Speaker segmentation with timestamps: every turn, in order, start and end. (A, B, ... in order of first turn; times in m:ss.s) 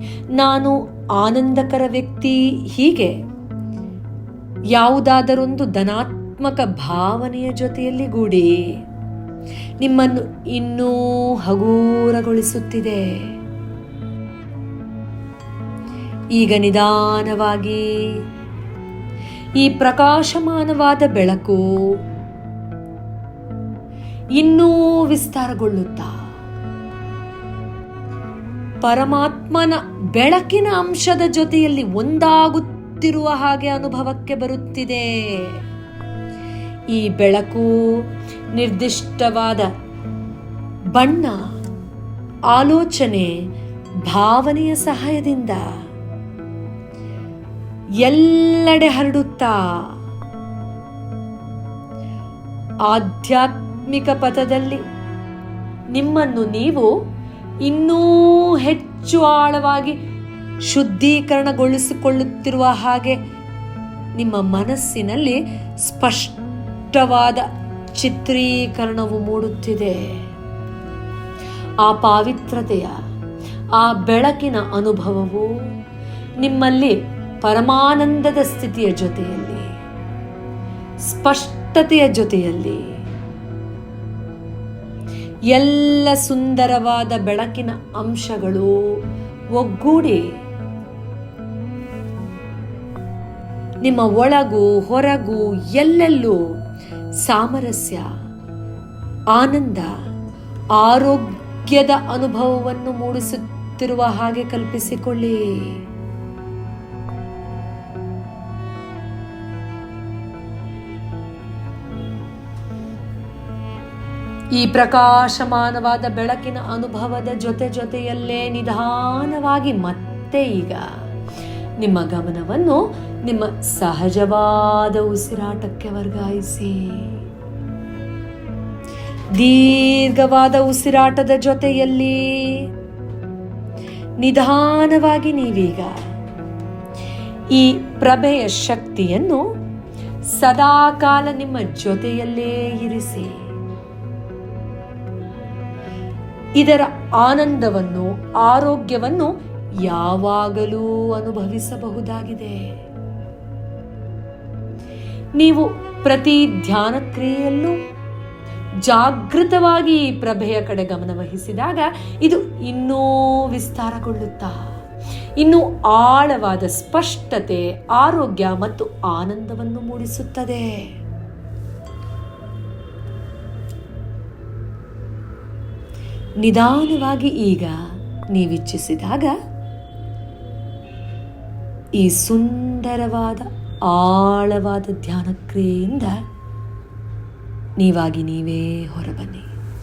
0:00.3-0:03.1 A
0:04.7-0:08.6 A
0:09.8-0:13.3 A
0:16.3-0:18.1 A
0:19.6-0:21.6 A
0:24.3-0:26.1 A
0:28.8-0:35.6 A
0:36.9-0:39.7 A
0:40.9-0:41.5 A
0:42.5-0:43.4 A
0:44.0-0:45.7 A
0:48.0-0:50.0 A
0:52.8-0:54.8 A
0:55.9-0:56.9 A
0:57.6-1:00.0 A
1:00.6-1:03.2 A
1:04.1-1:10.2 A
1:11.8-1:13.0 A
1:13.7-1:15.5 A
1:16.4-1:19.7 A
1:21.0-1:22.9 A
1:25.5-1:29.0 A
1:29.5-1:30.3 A
1:33.8-1:36.4 A
1:37.2-1:38.1 A
1:39.3-1:39.9 A
1:40.8-1:45.8 A
1:54.5-2:00.9 A
2:01.8-2:07.2 A
2:09.3-2:12.7 A
2:14.2-2:16.0 A
2:17.5-2:19.5 A
2:20.3-2:23.4 A
2:26.6-2:32.7 A
2:35.4-2:37.8 A
2:38.8-2:44.6 A
2:45.4-2:50.9 A
2:56.4-2:57.8 A
2:58.3-2:59.3 A
3:02.0-3:06.2 A
3:07.8-3:09.5 A